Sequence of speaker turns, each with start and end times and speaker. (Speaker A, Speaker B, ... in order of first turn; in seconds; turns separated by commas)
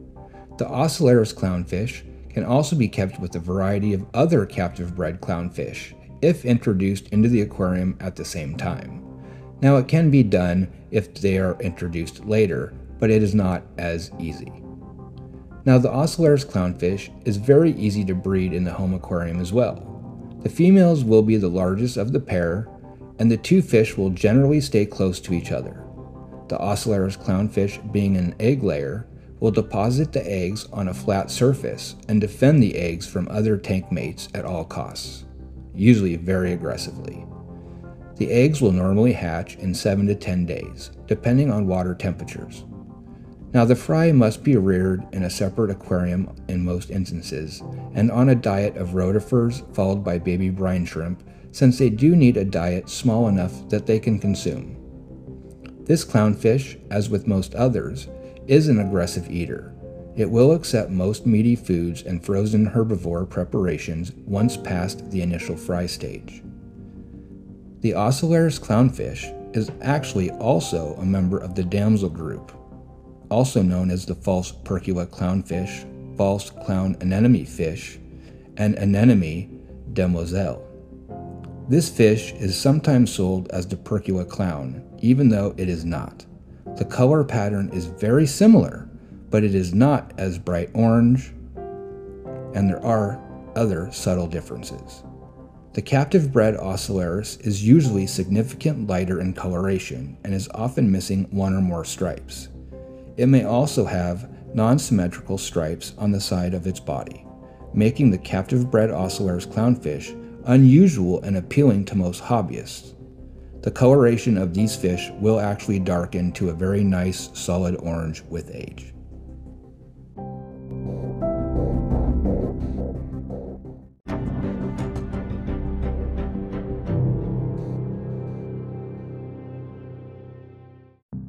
Speaker A: 0.6-9.0, Speaker A: 9.6-14.6, Speaker A: 15.6-25.9, Speaker A: 26.5-37.3, Speaker A: 38.1-42.6, Speaker A: 43.5-54.8, Speaker A: 55.8-66.4, Speaker A: 67.8-72.6, Speaker A: 73.3-78.0, Speaker A: 78.5-80.7, Speaker A: 81.7-91.3, Speaker A: 92.5-95.0, Speaker A: 95.7-102.5, Speaker A: 103.2-112.9, Speaker A: 113.6-118.9